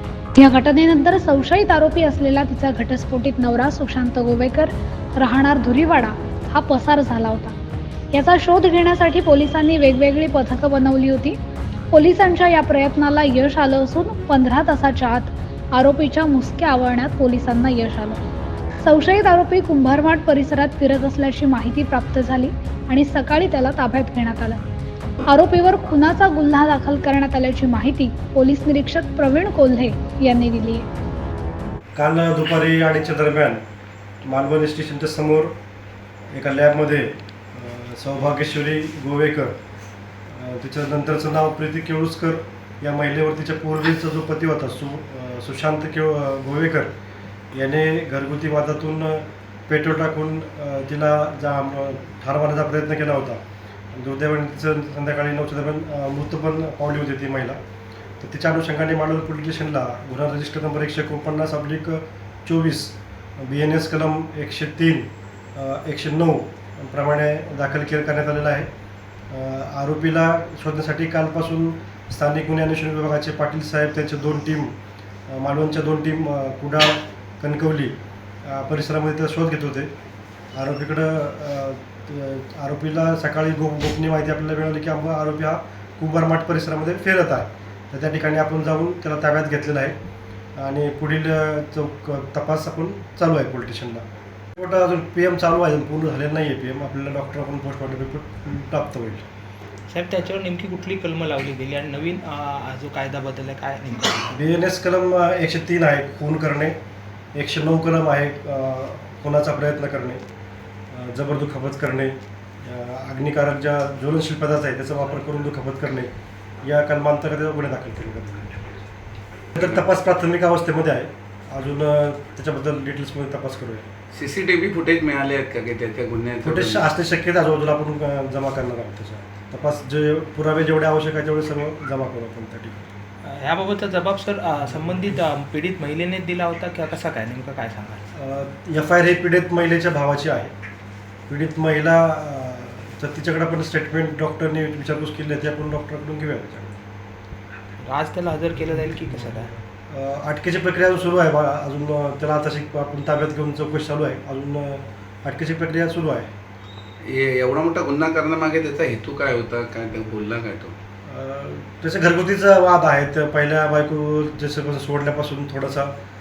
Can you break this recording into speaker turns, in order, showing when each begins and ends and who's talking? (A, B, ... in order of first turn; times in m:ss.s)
0:00.4-0:07.6 A
0:08.1-0:11.4 A
0:11.9-0:18.2 A
0:18.8-0:24.6 A
0:25.3-0:30.9 A
0:32.0-0:33.6 B
0:34.2-0:35.6 B
0:36.3-0:39.6 B
0:40.3-0:46.9 B
0:47.5-0:53.4 B
0:53.9-0:57.6 B
0:58.2-1:08.7 B
1:09.3-1:14.8 B
1:15.3-1:19.9 B
1:20.6-1:30.0 B
1:30.6-1:34.0 B
1:34.6-1:39.3 B
1:39.9-1:44.3 C
1:44.3-1:46.8 B
1:47.3-1:50.2 B
1:50.9-1:58.6 B
1:59.5-2:03.9 B
2:04.1-2:06.9 D
2:06.4-2:12.9 B
2:13.3-2:18.0 C
2:18.1-2:20.5 B
2:21.3-2:26.8 B
2:27.8-2:29.5 C
2:29.9-2:36.3 B
2:37.0-2:40.8 D
2:41.1-2:45.9 B